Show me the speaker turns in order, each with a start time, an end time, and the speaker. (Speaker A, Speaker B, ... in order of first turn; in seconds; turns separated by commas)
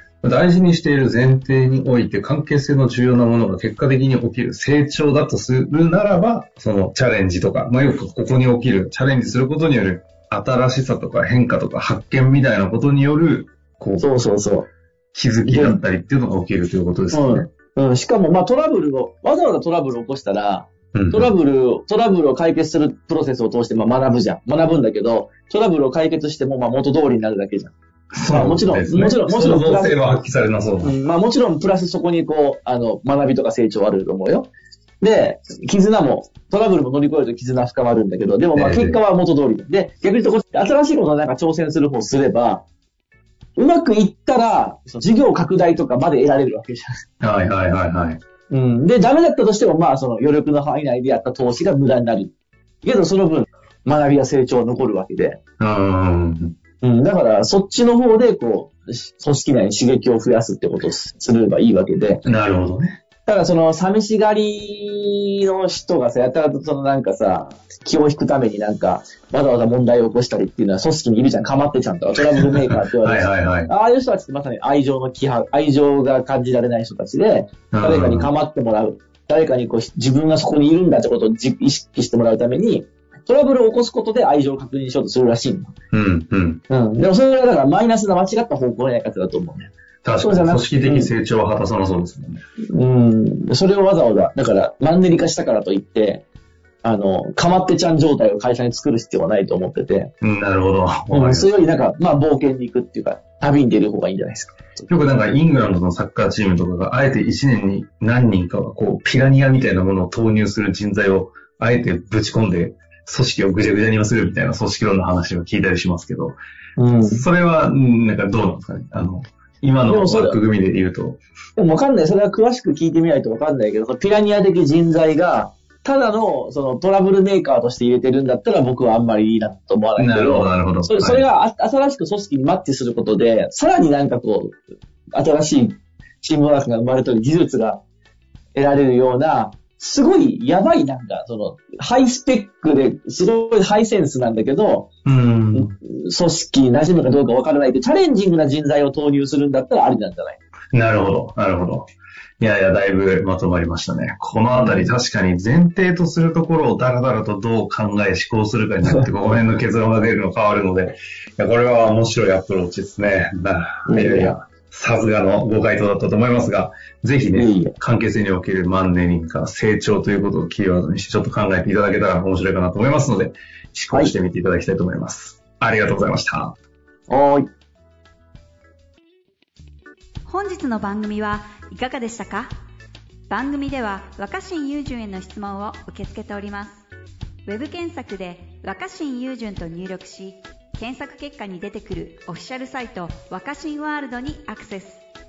Speaker A: 0.2-14.1, Speaker B: 14.0-14.7, Speaker A: 15.1-17.5, Speaker B: 15.4-15.8, Speaker B: 17.1-27.7, Speaker A: 20.9-21.3, Speaker A: 28.1-30.9, Speaker B: 28.3-30.0, Speaker B: 30.8-42.6, Speaker A: 38.5-39.0, Speaker B: 43.5-47.0, Speaker A: 47.2-48.2, Speaker B: 48.5-55.4, Speaker A: 55.6-56.5, Speaker B: 56.8-62.2, Speaker A: 62.2-63.0, Speaker B: 63.2-85.7, Speaker A: 72.8-73.7, Speaker A: 77.7-78.3, Speaker A: 85.9-86.6, Speaker B: 86.7-91.1, Speaker A: 90.0-92.4, Speaker B: 92.7-96.2, Speaker B: 96.8-100.1, Speaker A: 100.2-101.5, Speaker B: 101.1-104.9, Speaker A: 104.9-116.4, Speaker B: 116.8-117.2, Speaker A: 117.0-121.2, Speaker B: 119.9-120.4, Speaker B: 121.5-134.6, Speaker A: 130.0-131.2, Speaker B: 135.1-137.8, Speaker B: 138.5-144.9, Speaker A: 145.0-145.7, Speaker B: 145.5-150.4, Speaker A: 150.7-151.9, Speaker A: 152.4-176.6, Speaker B: 154.5-154.9, Speaker B: 163.9-164.4, Speaker B: 167.3-167.8, Speaker B: 177.1-177.5, Speaker C: 180.2-182.5, Speaker C: 183.3-186.8, Speaker C: 187.4-195.0